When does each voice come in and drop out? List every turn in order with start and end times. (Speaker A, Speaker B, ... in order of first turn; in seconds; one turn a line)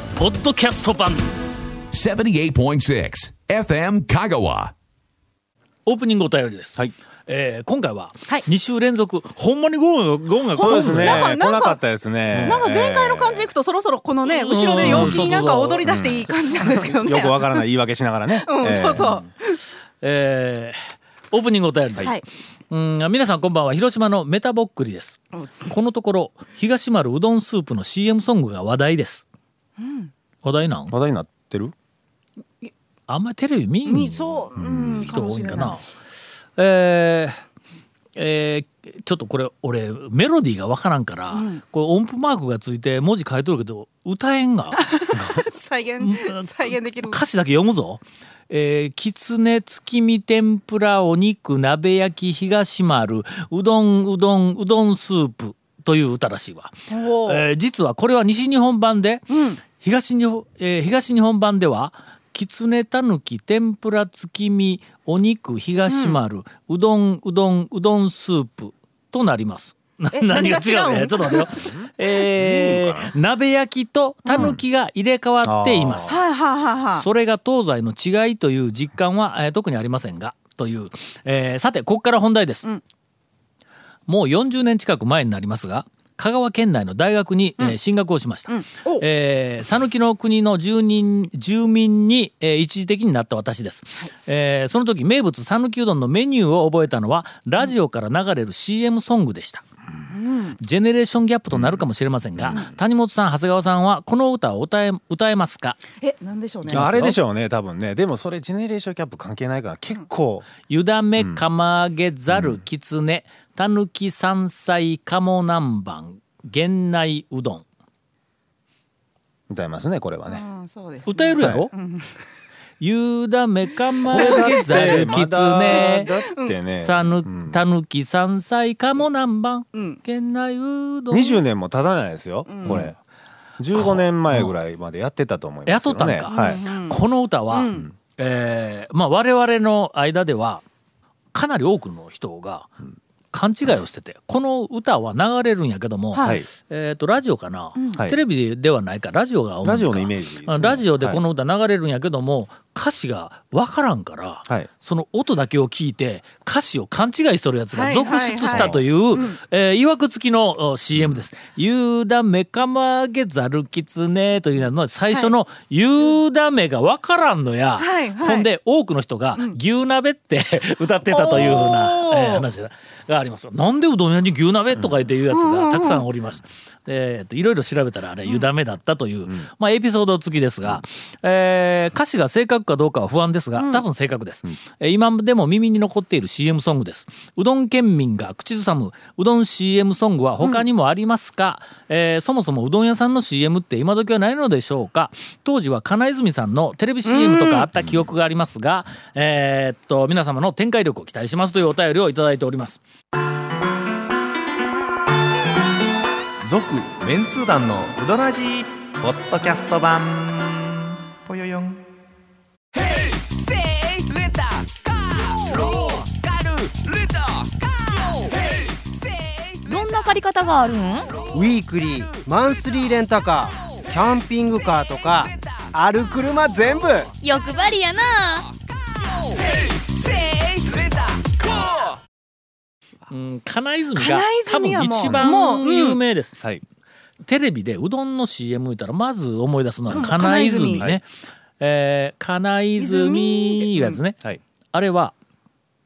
Speaker A: 0.1-1.3
Speaker B: 1.9-4.7
Speaker A: 5.8-11.3
Speaker C: 10.6-11.8
Speaker D: 10.6-13.5
Speaker A: 12.3-12.6
Speaker C: 12.4-17.7
Speaker A: 14.3-15.8
Speaker D: 14.8-19.1
Speaker C: 18.3-19.6
Speaker A: 20.0-29.2
Speaker C: 29.8-30.1
Speaker A: 30.4-30.9
Speaker D: 30.9-31.7
Speaker A: 33.1-35.9
Speaker C: 33.8-35.8
Speaker D: 34.5-35.7
Speaker A: 36.6-37.4
Speaker A: 38.1-44.9
Speaker C: 41.3-41.6
Speaker C: 44.8-47.2
Speaker A: 46.0-76.2
Speaker C: 56.9-57.5
Speaker C: 59.3-59.6
Speaker C: 65.9-66.2
Speaker C: 70.1-71.5
Speaker D: 71.5-73.1
Speaker C: 74.3-74.5
Speaker D: 74.3-74.6
Speaker D: 75.4-76.2
Speaker C: 76.0-77.0
Speaker A: 76.9-82.7
Speaker A: 84.1-99.6
Speaker C: 88.5-89.0
Speaker C: 100.1-100.6
Speaker A: 100.6-105.8
Speaker D: 101.5-102.8
Speaker C: 106.0-107.2
Speaker A: 106.7-107.2
Speaker D: 106.7-110.5
Speaker A: 110.7-117.7
Speaker D: 111.2-111.5
Speaker D: 112.3-112.6
Speaker D: 119.5-120.4
Speaker C: 120.2-122.2
Speaker A: 121.1-121.7
Speaker D: 121.4-121.7
Speaker A: 122.8-126.1
Speaker C: 124.1-125.1
Speaker D: 124.1-127.6
Speaker C: 125.7-126.6
Speaker A: 126.8-131.4
Speaker C: 129.7-130.0
Speaker D: 131.1-133.0
Speaker C: 132.5-132.9
Speaker A: 132.6-132.9
Speaker D: 133.6-136.6
Speaker A: 133.7-134.6
Speaker A: 135.7-140.6
Speaker C: 136.3-137.0
Speaker C: 137.5-137.9
Speaker A: 141.3-142.7
Speaker A: 143.3-202.8
Speaker C: 146.1-146.4
Speaker D: 146.2-146.5
Speaker C: 147.8-148.1
Speaker D: 149.6-151.2
Speaker C: 157.7-159.4
Speaker D: 158.4-158.8
Speaker D: 160.9-161.2
Speaker C: 167.8-168.5
Speaker C: 171.1-172.5
Speaker D: 171.4-171.6
Speaker C: 175.3-176.1
Speaker C: 197.1-197.7
Speaker E: 206.5-210.7
Speaker E: 211.2-211.8
Speaker F: 219.7-221.1
Speaker G: 221.3-227.1
Speaker F: 227.2-228.5
Speaker A: 233.1-236.4
Speaker C: 234.0-236.0
Speaker A: 237.2-241.1
Speaker D: 239.9-240.2
Speaker C: 239.9-240.9
Speaker D: 240.8-241.0
Speaker A: 241.6-244.2
Speaker C: 242.8-244.0
Speaker A: 244.7-245.2